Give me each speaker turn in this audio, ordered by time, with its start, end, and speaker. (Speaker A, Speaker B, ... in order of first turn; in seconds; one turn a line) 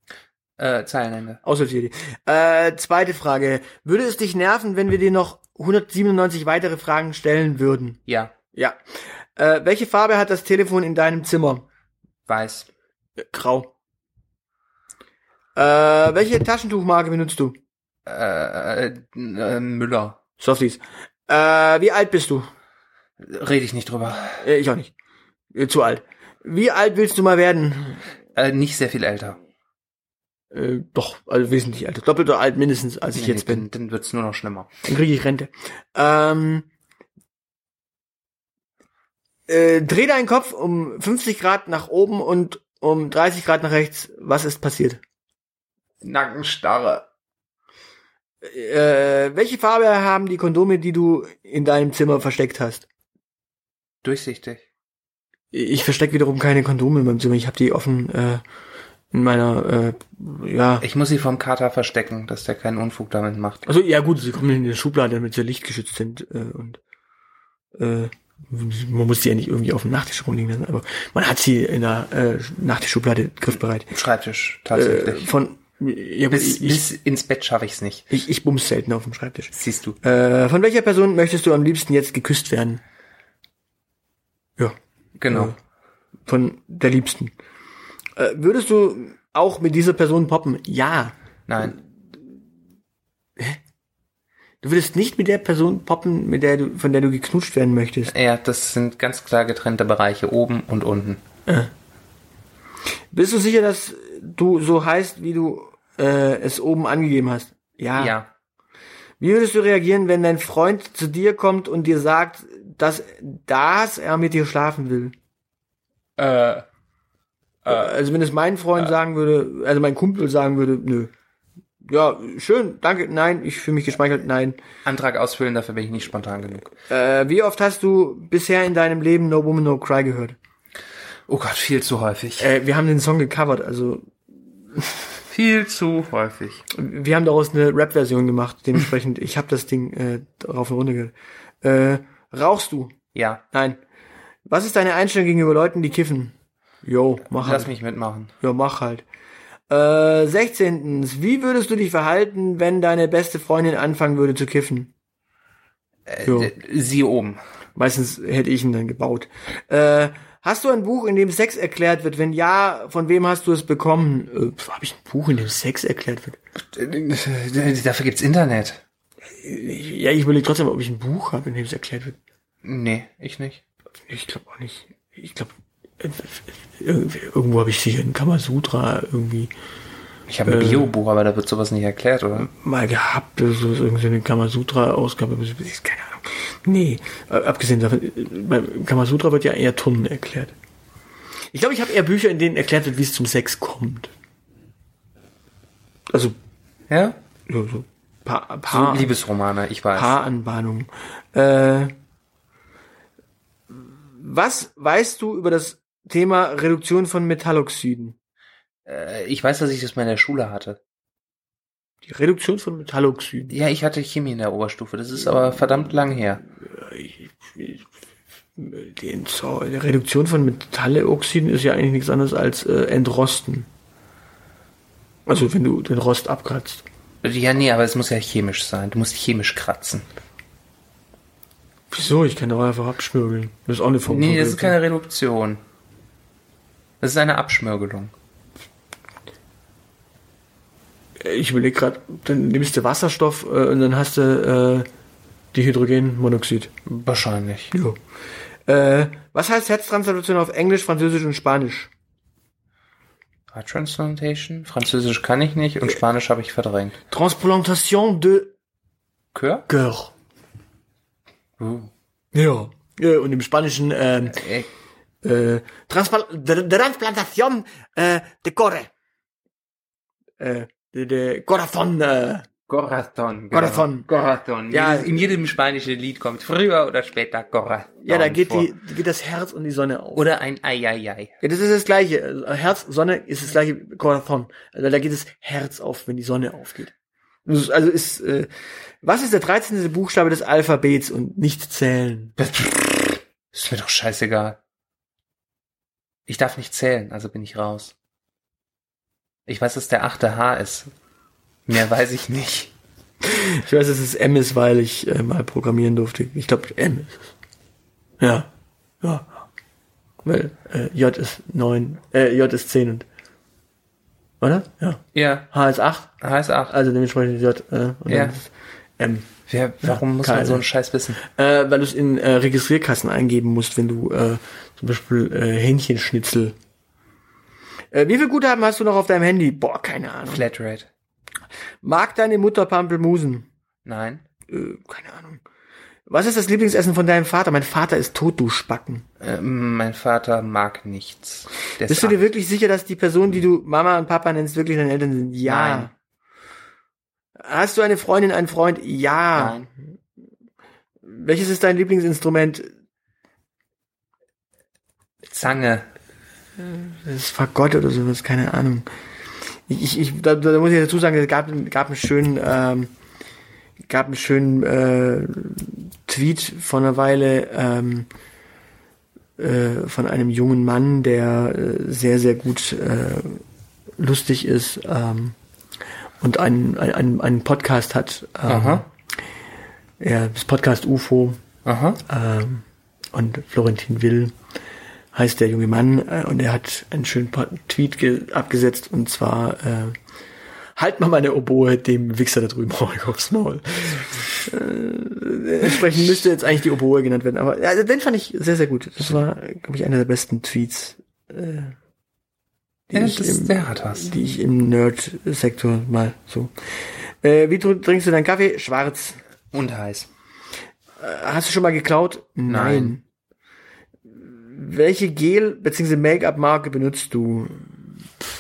Speaker A: 0.6-1.4
Speaker B: 1.4-8.0
Speaker A: 8.1-8.3
Speaker B: 9.4-11.7
Speaker A: 12.3-12.7
Speaker B: 13.2-13.7
Speaker B: 15.6-17.6
Speaker A: 18.1-20.2
Speaker B: 20.4-22.5
Speaker A: 23.2-24.4
Speaker B: 24.4-24.9
Speaker B: 25.5-28.0
Speaker A: 28.4-29.4
Speaker B: 30.5-33.7
Speaker A: 33.1-34.7
Speaker B: 34.9-36.7
Speaker B: 39.5-45.0
Speaker A: 46.0-47.1
Speaker B: 48.4-52.9
Speaker A: 54.0-54.7
Speaker B: 55.5-58.4
Speaker B: 59.1-60.9
Speaker A: 60.8-63.6
Speaker B: 63.7-66.8
Speaker B: 67.8-73.9
Speaker A: 73.9-75.3
Speaker B: 74.7-76.8
Speaker A: 76.3-78.1
Speaker B: 78.1-82.8
Speaker A: 79.5-80.0
Speaker A: 85.2-85.5
Speaker B: 85.3-85.6
Speaker B: 86.3-87.3
Speaker B: 88.2-91.7
Speaker A: 91.5-91.8
Speaker B: 94.6-98.1
Speaker A: 98.1-101.2
Speaker B: 103.1-108.2
Speaker A: 108.0-108.3
Speaker B: 109.2-115.1
Speaker A: 116.2-116.7
Speaker A: 117.7-117.9
Speaker B: 117.7-121.1
Speaker B: 121.8-124.6
Speaker A: 124.8-126.7
Speaker B: 126.9-130.4
Speaker A: 131.3-132.5
Speaker B: 132.4-134.1
Speaker A: 135.3-136.7
Speaker B: 136.7-142.9
Speaker A: 143.1-143.4
Speaker B: 143.5-143.8
Speaker B: 144.5-147.7
Speaker A: 147.3-148.3
Speaker B: 148.4-149.0
Speaker B: 149.7-154.9
Speaker A: 156.1-157.4
Speaker B: 156.2-156.5
Speaker B: 157.8-166.4
Speaker A: 166.7-168.8
Speaker B: 169.4-172.2
Speaker A: 172.6-173.6
Speaker B: 174.1-179.5
Speaker A: 180.3-182.5
Speaker B: 180.4-180.9
Speaker B: 182.4-190.5
Speaker B: 191.5-194.1
Speaker B: 196.1-196.4
Speaker A: 196.9-197.2
Speaker B: 197.5-199.1
Speaker A: 198.7-200.1
Speaker B: 199.9-201.9
Speaker B: 204.2-208.2
Speaker A: 208.9-210.8
Speaker B: 212.0-213.5
Speaker A: 213.5-216.4
Speaker B: 216.7-217.8
Speaker B: 218.6-223.7
Speaker B: 225.3-226.8
Speaker A: 227.2-230.1
Speaker B: 231.9-234.8
Speaker A: 234.1-235.6
Speaker A: 237.0-238.1
Speaker B: 241.2-244.9
Speaker B: 245.5-246.7
Speaker A: 246.9-247.7
Speaker B: 248.7-251.9
Speaker A: 253.5-257.0
Speaker B: 257.1-258.5
Speaker A: 259.3-259.7
Speaker B: 259.7-260.1
Speaker A: 261.6-261.9
Speaker B: 262.3-264.4
Speaker A: 264.3-264.7
Speaker B: 265.2-268.9
Speaker B: 270.4-272.5
Speaker A: 272.7-278.7
Speaker B: 273.5-274.1
Speaker B: 274.7-275.3
Speaker B: 278.0-280.3
Speaker A: 280.1-281.3
Speaker B: 281.4-286.9
Speaker B: 287.5-288.5
Speaker B: 289.0-292.4
Speaker A: 292.4-294.6
Speaker A: 296.3-297.9
Speaker A: 299.5-300.9
Speaker A: 301.7-302.7
Speaker B: 303.2-307.3
Speaker B: 308.2-308.5
Speaker B: 309.0-309.3
Speaker B: 310.2-313.1
Speaker B: 314.4-316.1
Speaker A: 315.1-315.5
Speaker A: 316.2-316.7
Speaker B: 316.7-319.3
Speaker A: 318.1-318.4
Speaker A: 319.5-321.2
Speaker B: 319.8-320.6
Speaker B: 321.2-326.6
Speaker B: 327.9-330.4
Speaker A: 330.3-330.9
Speaker B: 331.8-333.5
Speaker A: 333.9-334.2
Speaker B: 334.5-335.4
Speaker B: 336.1-339.1
Speaker A: 339.2-342.3
Speaker B: 341.8-345.9
Speaker A: 345.4-345.9
Speaker B: 347.4-349.7
Speaker A: 349.4-349.7
Speaker B: 351.1-352.7
Speaker A: 355.3-355.9
Speaker B: 356.6-358.9
Speaker B: 359.7-362.9
Speaker B: 363.9-368.1
Speaker B: 369.4-373.4
Speaker B: 374.0-375.4
Speaker B: 376.2-378.9
Speaker A: 378.5-378.8
Speaker B: 380.0-381.4
Speaker A: 381.6-382.0
Speaker B: 382.1-384.4
Speaker B: 385.1-390.0
Speaker B: 390.8-401.8
Speaker B: 402.9-406.5
Speaker A: 402.9-404.1
Speaker B: 407.2-409.2
Speaker A: 409.5-410.1
Speaker B: 411.0-413.0
Speaker A: 412.5-413.0
Speaker B: 414.2-417.7